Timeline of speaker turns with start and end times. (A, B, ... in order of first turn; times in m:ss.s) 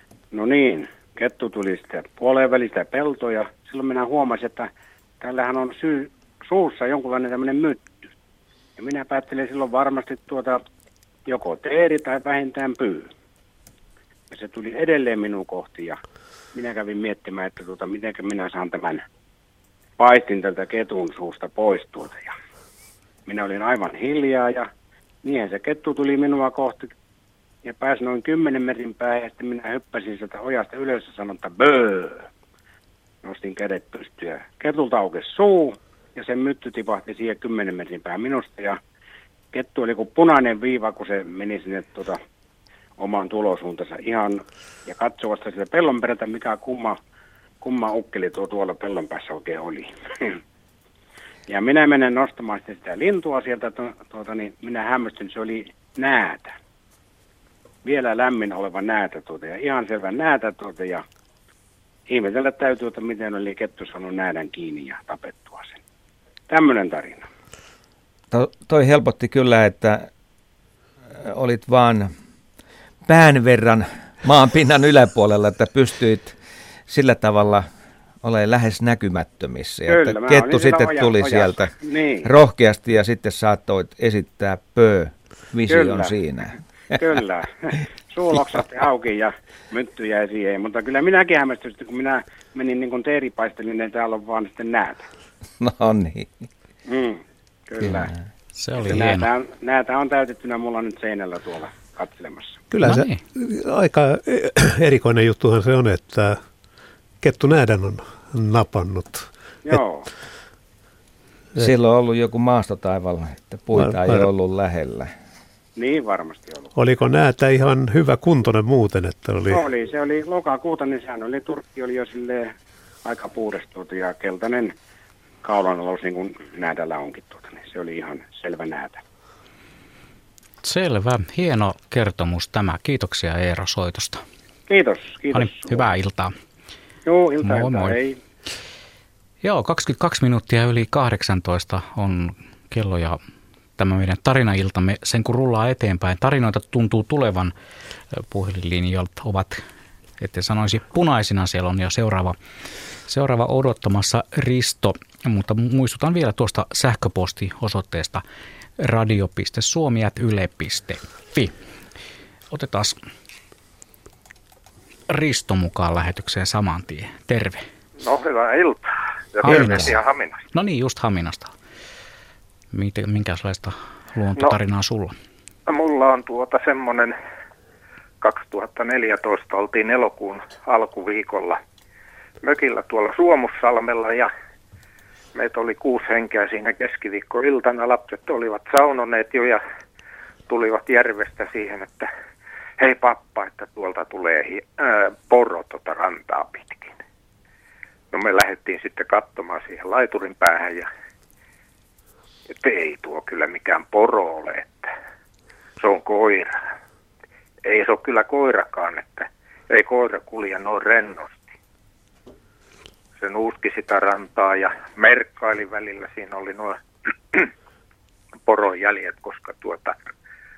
0:00.3-0:04.7 A
0:05.2-0:08.1 A
0:08.8-0:10.6 A
0:11.3-0:13.1 A
0:14.3-0:16.0 A
0:16.5-0:19.0 A
0:20.0-0:22.4 A
0:23.3-0:24.7 A
0:25.2-0:26.9 A
0:27.6-0:32.3 A
0:33.2-0:38.8 A
0:39.5-0:42.2 A
0:43.0-0:47.0 A
0:47.6-0:50.4 A
0:51.5-0:56.6 A
0:57.8-1:01.0 A
1:02.1-1:05.8 A
1:06.5-1:07.3 A
1:08.3-1:10.1 B
1:11.2-1:12.1 B
1:13.1-1:16.4 B
1:16.9-1:17.7 B
1:18.2-1:26.6 B
1:19.9-1:22.3 A
1:25.7-1:26.1 A
1:26.9-1:35.1 A
1:35.6-1:36.4 B
1:36.9-1:38.1 A
1:38.6-1:39.3 C
1:38.8-1:42.6 A
1:42.7-1:46.4 D
1:42.8-1:43.2 C
1:47.2-1:49.8 D
1:49.6-1:50.1 A
1:51.6-1:55.1 B
1:53.8-1:54.3 D
1:55.8-1:56.7 A
1:56.8-1:59.6 D
1:59.5-2:02.5 A
2:03.0-2:04.7 A
2:05.4-2:09.0 A
2:10.6-2:14.2 C
2:14.7-2:15.9 A
2:15.3-2:16.3 C
2:17.0-2:18.2 A
2:17.4-2:18.0 C
2:19.4-2:23.2 C
2:23.8-2:27.5 C
2:28.1-2:29.6 C
2:30.2-2:32.4 C
2:33.1-2:38.2 C
2:38.8-2:41.5 C
2:42.5-2:43.0 C
2:45.1-2:47.7 C
2:48.0-2:50.4 E
2:49.5-2:50.0 C
2:50.5-2:51.5 C
2:52.7-2:55.2 C
2:55.7-2:57.2 E
2:58.2-3:01.6 E
3:02.4-3:04.3 E
3:05.4-3:09.6 E
3:10.5-3:12.1 E
3:12.8-3:17.0 E
3:18.1-3:20.9 E
3:22.6-3:24.9 E
3:25.8-3:26.6 E
3:27.6-3:31.5 E
3:33.2-3:36.8 E
3:38.5-3:40.1 E